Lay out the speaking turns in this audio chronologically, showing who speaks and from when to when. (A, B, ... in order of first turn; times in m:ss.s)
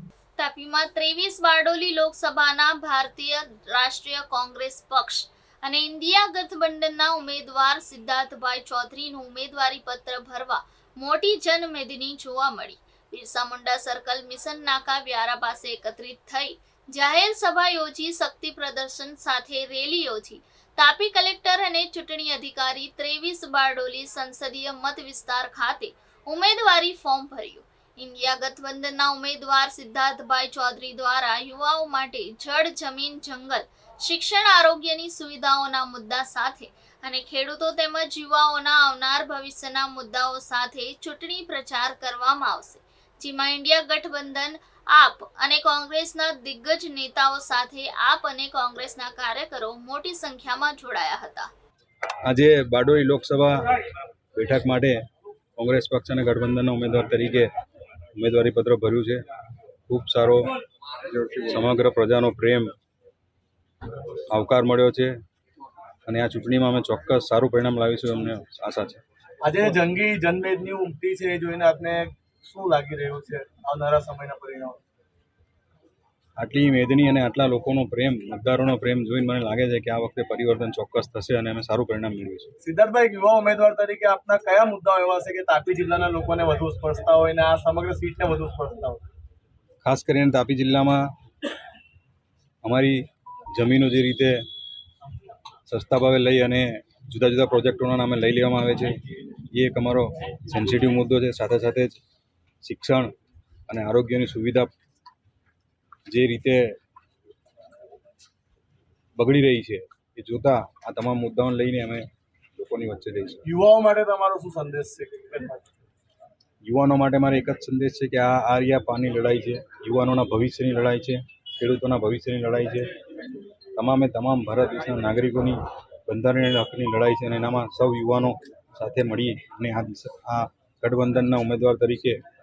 0:00.4-0:51.5 A
0:52.3-0:53.6 B
0:54.4-0:55.0 B
0:55.6-0:57.5 B
0:58.2-0:59.2 B
0:59.9-1:00.5 B
1:01.2-1:02.7 B
1:04.3-1:05.1 B
1:06.1-1:09.0 B
1:09.4-1:14.8 C
1:16.4-1:22.5 B
1:22.6-1:29.0 C
1:29.8-1:31.0 B
1:32.6-1:33.0 B
1:33.5-1:34.4 B
1:35.7-1:38.9 B
1:39.6-1:42.0 B
1:42.6-1:43.1 B
1:43.7-1:44.7 B
1:46.1-1:46.6 B
1:49.2-1:53.4 B
1:53.5-1:55.6 C
1:56.6-2:02.9 B
2:03.8-2:12.2 B